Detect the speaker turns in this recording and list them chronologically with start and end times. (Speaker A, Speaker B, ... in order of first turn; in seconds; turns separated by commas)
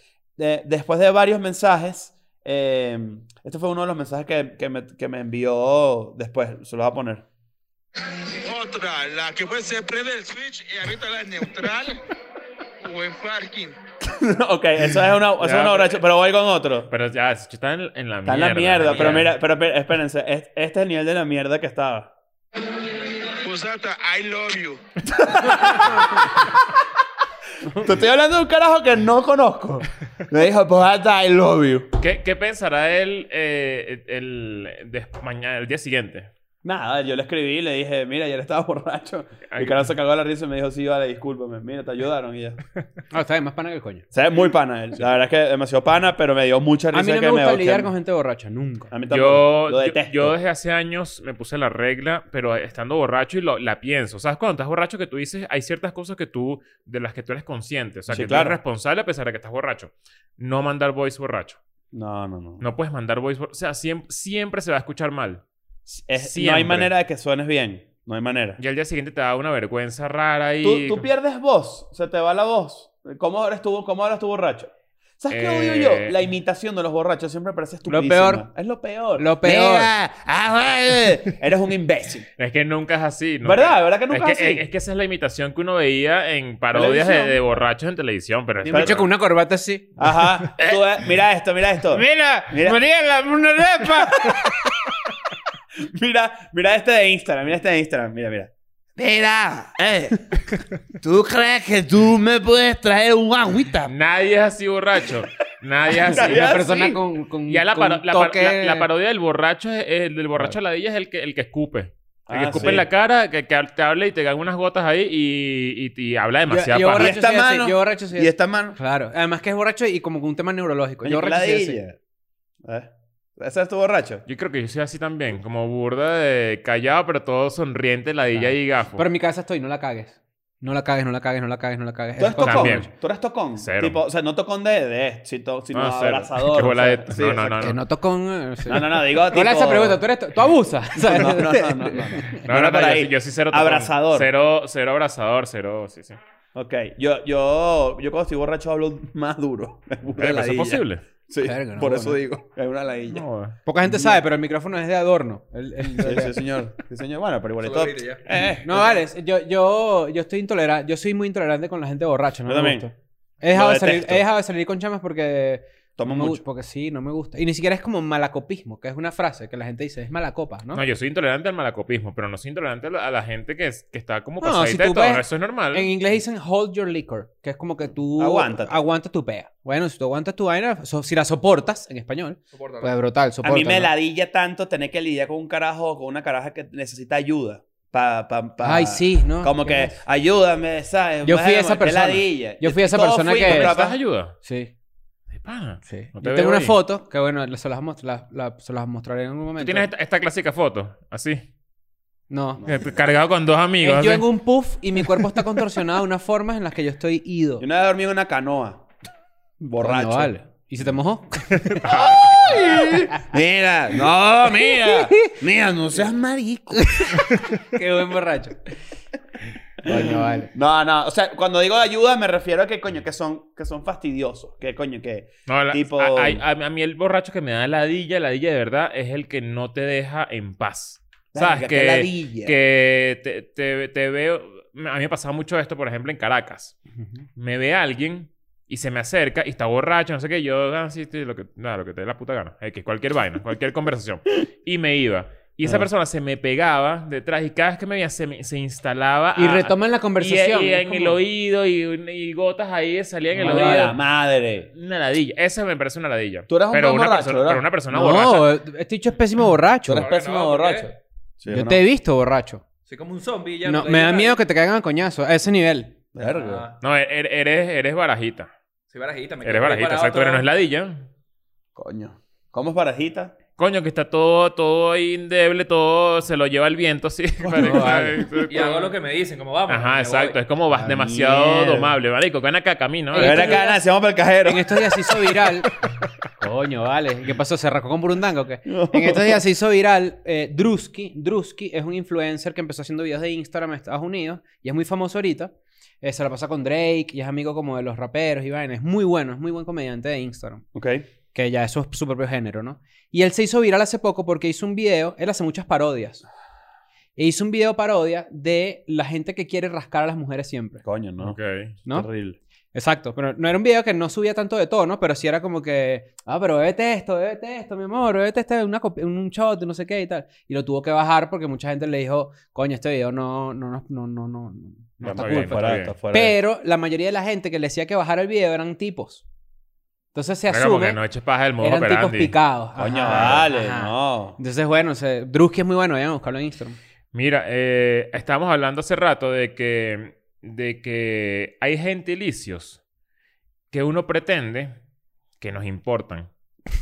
Speaker A: 0.4-7.2, Speaker B: 8.4-12.0, Speaker B: 12.8-13.8, Speaker A: 14.0-16.9, Speaker C: 15.4-16.0, Speaker C: 16.9-19.3, Speaker A: 18.2-22.1, Speaker B: 23.4-24.8, Speaker A: 25.1-26.6, Speaker A: 27.7-31.9, Speaker C: 32.0-36.3, Speaker A: 36.6-42.6, Speaker C: 39.5-39.9, Speaker D: 43.1-44.0, Speaker A: 44.1-47.9, Speaker D: 46.9-48.9, Speaker A: 48.9-50.4, Speaker C: 49.1-61.6, Speaker A: 58.1-58.6, Speaker A: 61.9-62.7, Speaker C: 62.6-65.4, Speaker A: 65.9-68.6, Speaker C: 66.2-66.9, Speaker C: 68.6-71.1, Speaker A: 70.6-82.3, Speaker C: 75.3-76.2, Speaker D: 77.9-78.5, Speaker D: 79.2-79.9, Speaker C: 82.4-89.1, Speaker A: 83.4-84.7, Speaker A: 86.7-87.4, Speaker D: 88.6-89.9, Speaker A: 88.7-89.0, Speaker A: 90.0-92.8, Speaker D: 91.9-94.8, Speaker A: 94.0-94.9, Speaker A: 95.9-100.4, Speaker A: 101.0-103.9, Speaker C: 103.8-106.8, Speaker A: 106.0-107.0, Speaker D: 106.2-108.9, Speaker C: 107.5-117.2, Speaker A: 112.3-112.9, Speaker D: 116.5-121.8, Speaker A: 117.0-118.8, Speaker A: 121.0-122.0, Speaker A: 122.6-124.2, Speaker C: 124.3-129.0, Speaker D: 128.3-132.8, Speaker A: 132.2-137.8, Speaker C: 132.4-132.9, Speaker C: 133.6-134.0, Speaker C: 135.7-137.8, Speaker D: 137.6-142.4, Speaker A: 138.7-140.0, Speaker A: 141.0-144.3, Speaker C: 142.4-146.2, Speaker A: 146.5-153.2, Speaker C: 150.2-151.0, Speaker D: 151.4-152.2, Speaker C: 153.1-153.6, Speaker D: 153.7-156.3, Speaker A: 153.8-154.2, Speaker A: 156.0-159.0, Speaker E: 157.6-158.2, Speaker D: 158.6-170.8, Speaker A: 162.4-162.9, Speaker A: 163.5-164.2, Speaker A: 166.0-166.4, Speaker C: 170.7-175.9, Speaker D: 174.4-183.9, Speaker A: 178.2-178.8, Speaker E: 182.5-182.9, Speaker A: 183.4-194.0, Speaker D: 188.6-190.0, Speaker D: 191.2-193.7, Speaker C: 193.5-194.3, Speaker D: 194.4-194.7, Speaker C: 195.3-196.8, Speaker D: 195.8-199.9, Speaker C: 199.6-201.4, Speaker D: 202.3-202.7, Speaker A: 202.6-202.9, Speaker C: 202.7-204.3, Speaker D: 203.8-207.6, Speaker C: 205.0-205.4, Speaker A: 207.6-208.8, Speaker A: 209.6-210.9, Speaker D: 209.8-213.3, Speaker C: 211.6-212.5, Speaker A: 212.3-217.2, Speaker D: 214.9-215.4, Speaker D: 217.6-218.7, Speaker D: 219.8-220.5, Speaker A: 219.8-226.4, Speaker C: 225.5-236.8, Speaker A: 231.3-232.6, Speaker C: 237.3-254.0, Speaker D: 249.3-251.2, Speaker D: 253.4-253.9, Speaker A: 253.4-254.7, Speaker C: 254.7-258.6, Speaker A: 256.5-257.6, Speaker D: 257.9-260.1, Speaker A: 259.8-261.8, Speaker E: 259.9-260.9, Speaker D: 261.5-262.6, Speaker E: 262.9-264.4, Speaker D: 263.6-266.0, Speaker A: 266.1-266.6, Speaker E: 266.3-266.8, Speaker C: 266.8-268.5, Speaker E: 268.9-270.5, Speaker C: 269.4-271.1, Speaker A: 271.8-273.3, Speaker C: 273.6-279.0, Speaker A: 277.4-278.3, Speaker D: 277.6-278.2, Speaker E: 278.5-280.4, Speaker C: 279.7-283.6, Speaker A: 280.8-282.0, Speaker D: 283.1-283.8, Speaker A: 283.1-285.5, Speaker D: 284.4-285.7, Speaker D: 286.4-300.6, Speaker A: 288.6-289.4, Speaker A: 300.7-301.1, Speaker D: 301.3-306.2, Speaker D: 307.1-310.8, Speaker A: 310.8-312.4, Speaker C: 311.2-311.7, Speaker D: 312.7-329.2, Speaker C: 325.0-325.9, Speaker A: 325.0-326.4, Speaker D: 330.1-331.0, Speaker C: 330.5-332.3, Speaker D: 331.6-336.8, Speaker A: 332.8-334.4, Speaker C: 333.1-333.4, Speaker C: 337.1-342.8, Speaker C: 343.7-344.7, Speaker C: 345.4-346.3